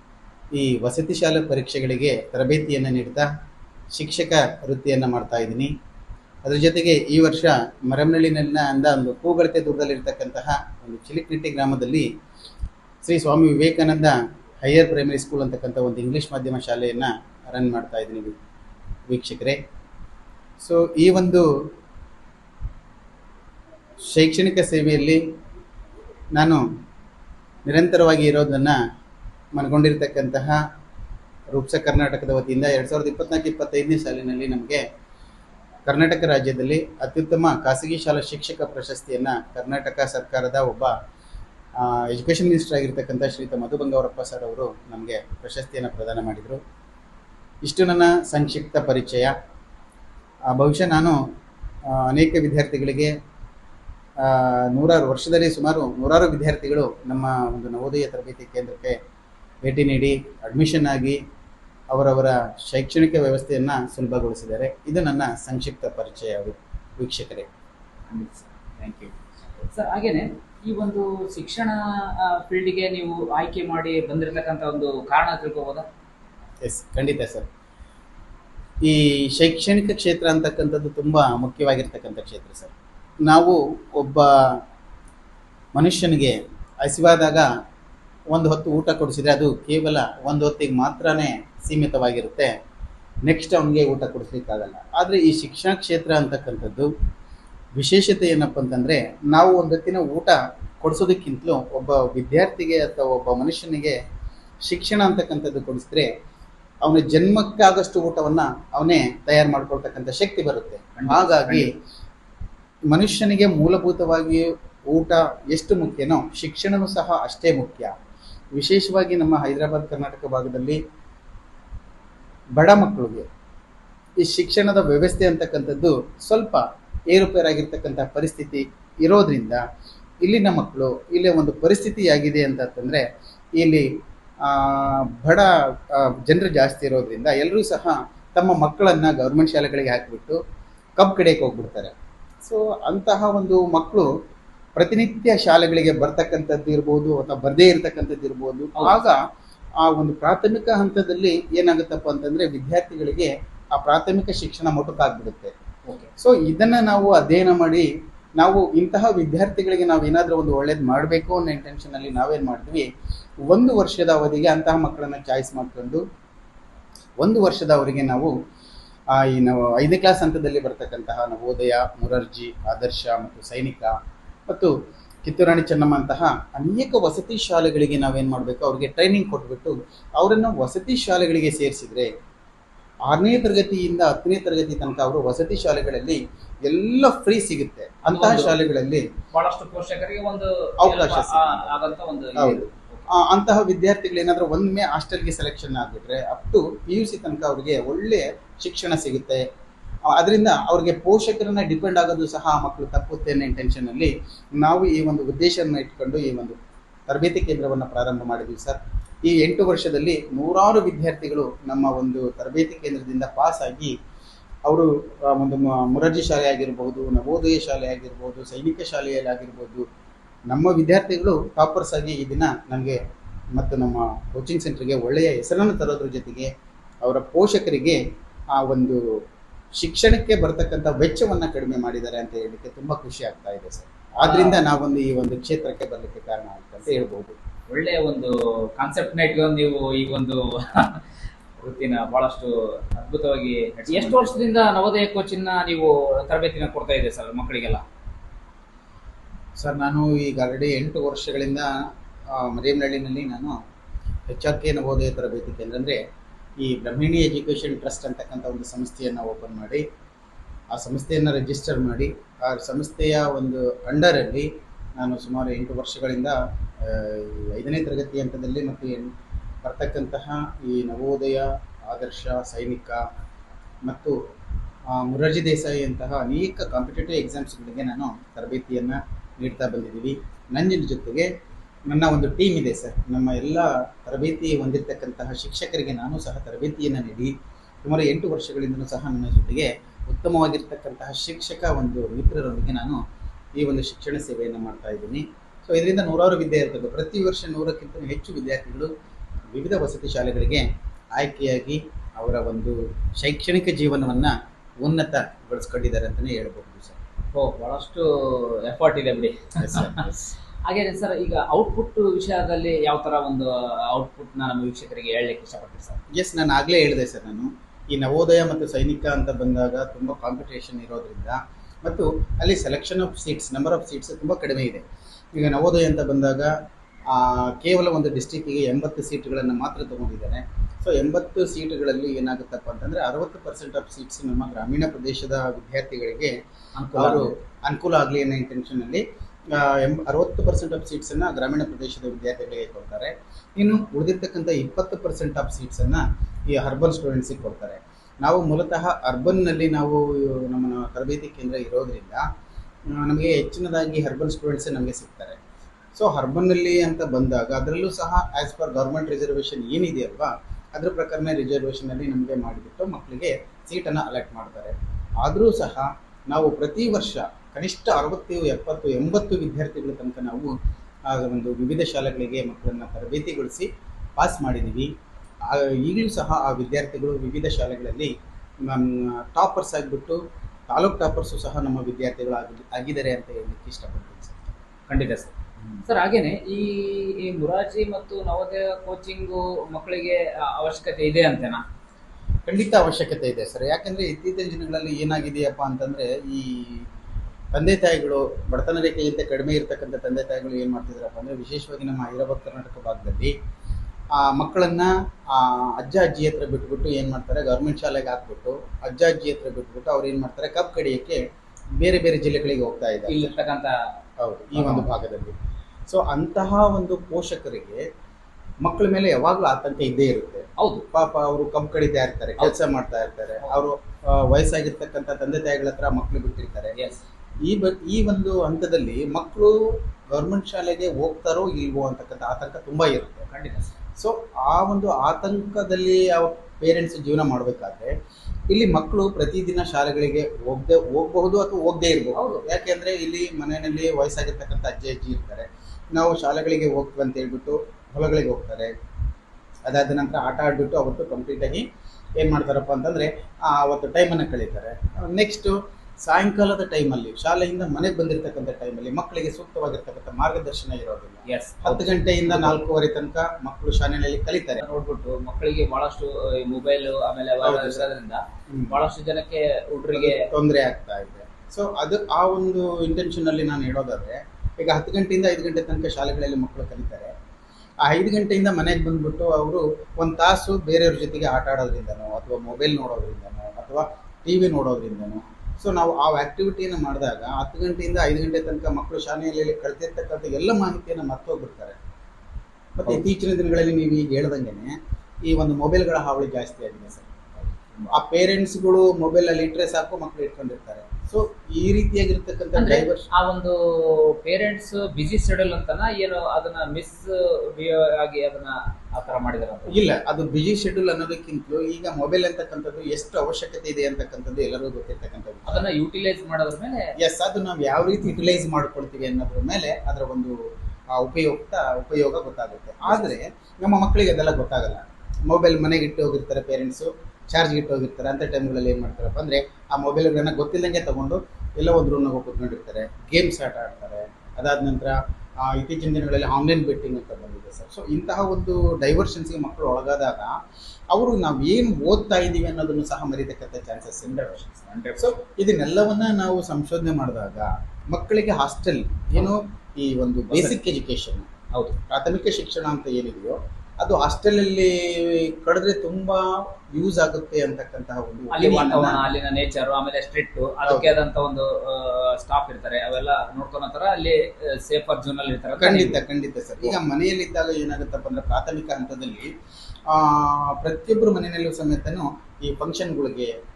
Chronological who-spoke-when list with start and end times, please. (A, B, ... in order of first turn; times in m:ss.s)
0:00.5-0:03.3 A
0:04.0-0:05.7 A
0:06.4-0:12.1 A
0:13.0-0:18.3 A
0:19.1-0:19.6 A
0:20.6-0:21.4 A
0:24.1-0:25.2 A
0:26.4-0:26.6 A
0:27.7-0:28.8 A
0:29.6-0:30.6 A
0:31.5-0:34.8 A
0:35.9-0:40.9 A
0:41.8-0:46.6 A
0:47.6-0:49.3 A
0:50.5-0:51.2 A
0:51.9-0:53.1 A
0:54.2-0:59.0 A
0:59.6-1:01.2 A
1:01.9-1:07.5 A
1:08.1-1:15.9 B
1:16.6-1:17.5 A
1:18.8-1:22.7 A
1:23.3-1:24.6 A
1:25.8-1:27.5 A
1:28.3-1:32.5 A
1:33.3-1:36.9 A
1:37.8-1:44.0 A
1:44.7-1:46.1 A
1:46.8-1:51.7 A
1:51.0-1:51.7 B
1:52.9-1:57.9 A
1:58.6-2:00.8 A
2:02.6-2:03.3 A
2:04.2-2:09.6 A
2:10.2-2:13.0 A
2:13.6-2:13.8 A
2:14.4-2:20.4 A
2:21.0-2:24.1 A
2:24.8-2:29.2 A
2:28.8-2:29.2 B
2:29.8-2:35.5 A
2:35.8-2:36.1 B
2:36.2-2:42.9 A
2:43.5-2:46.0 A
2:47.2-2:48.3 A
2:49.1-2:53.9 A
2:55.2-3:02.1 A
3:03.1-3:09.0 A
3:08.1-3:08.6 B
3:09.3-3:13.1 B
3:10.8-3:19.4 A
3:20.1-3:26.6 A
3:27.1-3:33.9 A
3:34.7-3:39.8 A
3:40.5-3:43.0 A
3:43.6-3:46.5 A
3:47.0-3:48.0 A
3:48.6-3:49.0 A
3:49.8-3:57.4 A
3:54.2-3:54.6 B
3:57.7-4:01.0 B
4:01.6-4:07.8 B
4:03.9-4:04.3 A
4:09.6-4:13.6 A
4:14.3-4:16.0 A
4:16.6-4:19.8 A
4:20.7-4:29.1 A
4:29.6-4:33.0 A
4:33.9-4:34.2 A
4:34.9-4:41.3 A
4:41.9-4:47.3 A
4:47.8-4:53.0 A
4:53.6-4:58.9 A
4:59.5-5:07.0 A
5:07.3-5:16.0 B
5:09.6-5:10.0 A
5:16.1-5:24.8 A
5:25.4-5:26.5 A
5:27.1-5:36.3 A
5:36.8-5:37.3 B
5:36.9-5:52.2 A
5:52.9-5:55.4 A
5:56.0-6:10.5 A
6:11.1-6:14.9 A
6:15.5-6:18.1 A
6:18.6-6:24.4 A
6:24.9-6:25.4 B
6:25.9-6:31.6 B
6:32.5-6:36.9 A
6:37.5-6:43.3 A
6:44.2-6:51.2 A
6:51.8-6:53.4 A
6:53.1-6:53.8 B
6:54.2-6:55.3 A
6:54.5-6:54.9 B
6:55.9-6:57.8 A
6:58.6-7:06.7 A
7:00.6-7:00.9 B
7:06.8-7:07.0 B
7:07.5-7:13.3 A
7:13.3-7:13.8 B
7:14.0-7:17.9 A
7:18.5-7:28.7 A
7:22.2-7:22.5 B
7:29.7-7:31.6 A
7:32.2-7:44.6 A
7:41.3-7:42.6 B
7:44.6-7:50.3 B
7:47.4-7:47.9 A
7:48.5-7:48.8 A
7:49.8-7:57.1 A
7:57.8-8:11.8 A
8:12.8-8:14.7 A
8:15.3-8:17.3 A
8:17.6-8:17.9 B
8:17.9-8:23.1 A
8:22.6-8:29.8 B
8:29.7-8:35.7 A
8:35.5-8:36.9 B
8:37.0-8:40.4 A
8:40.9-9:00.4 A
8:42.9-8:43.2 B
9:00.9-9:04.4 A
9:04.0-9:05.2 B
9:05.0-9:11.3 A
9:10.3-9:10.6 B
9:11.5-9:11.8 B
9:11.9-9:19.0 A
9:18.3-9:26.0 B
9:20.6-9:20.9 A
9:25.6-9:29.3 A
9:29.9-9:33.3 A